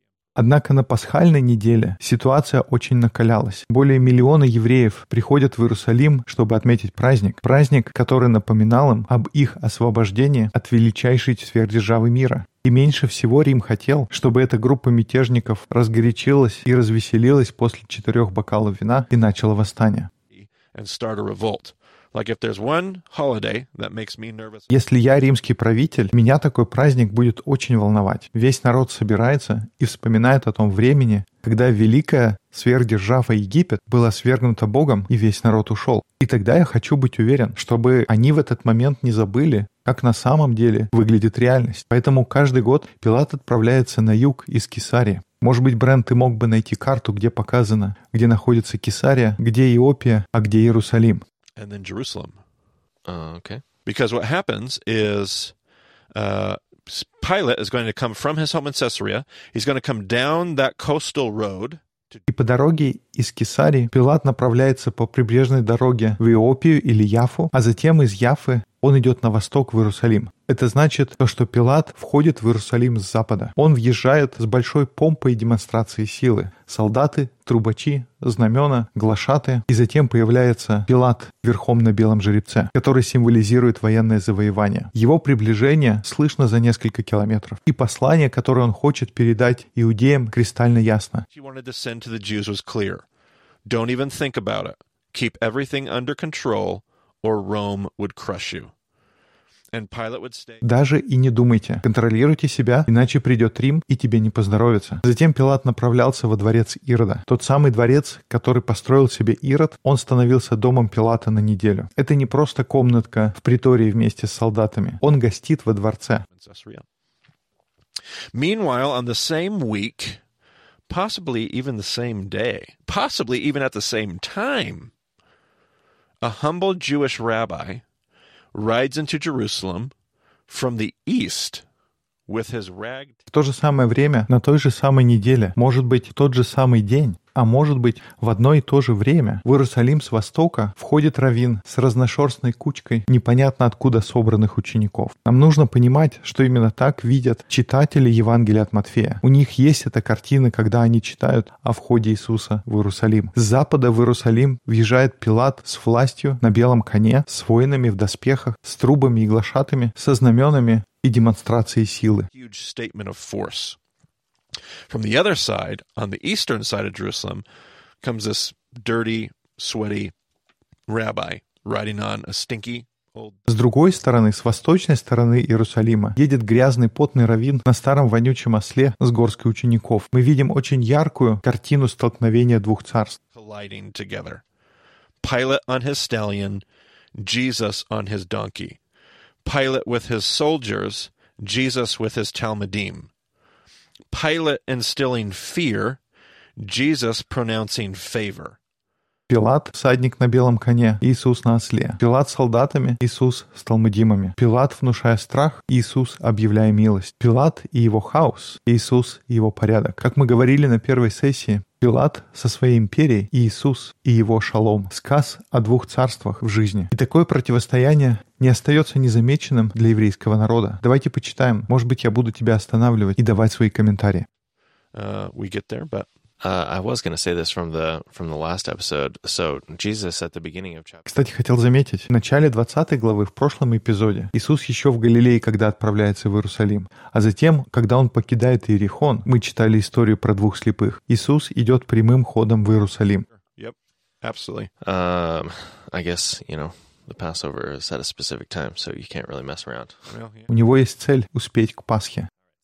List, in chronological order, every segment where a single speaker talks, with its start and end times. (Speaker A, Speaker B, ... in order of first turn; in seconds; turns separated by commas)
Speaker A: 0.3-20.1, Speaker B: 20.3-24.7, Speaker A: 24.7-51.2, Speaker B: 51.5-52.4, Speaker C: 53.0-53.6, Speaker B: 53.8-55.5, Speaker B: 56.1-62.2, Speaker A: 62.3-91.2, Speaker B: 91.3-93.0, Speaker B: 93.6-98.7, Speaker B: 99.7-100.6, Speaker A: 100.6-116.2, Speaker B: 116.3-116.8, Speaker B: 118.3-120.2, Speaker B: 120.9-124.9, Speaker B: 126.2-127.8, Speaker B: 128.5-129.9, Speaker B: 130.5-131.6, Speaker B: 132.3-133.2, Speaker A: 133.3-162.3, Speaker B: 162.3-163.8, Speaker B: 164.9-167.4, Speaker B: 168.0-170.1, Speaker B: 170.9-173.4, Speaker A: 173.5-183.2, Speaker B: 183.3-184.4, Speaker B: 185.2-186.6, Speaker B: 187.1-188.8, Speaker B: 189.4-193.1, Speaker B: 194.1-196.0, Speaker B: 196.6-198.6, Speaker A: 199.3-224.3, Speaker B: 224.9-226.1, Speaker C: 226.4-231.1, Speaker A: 231.1-243.2, Speaker B: 243.6-244.7, Speaker C: 244.8-250.1, Speaker B: 250.1-250.5, Speaker A: 250.5-252.3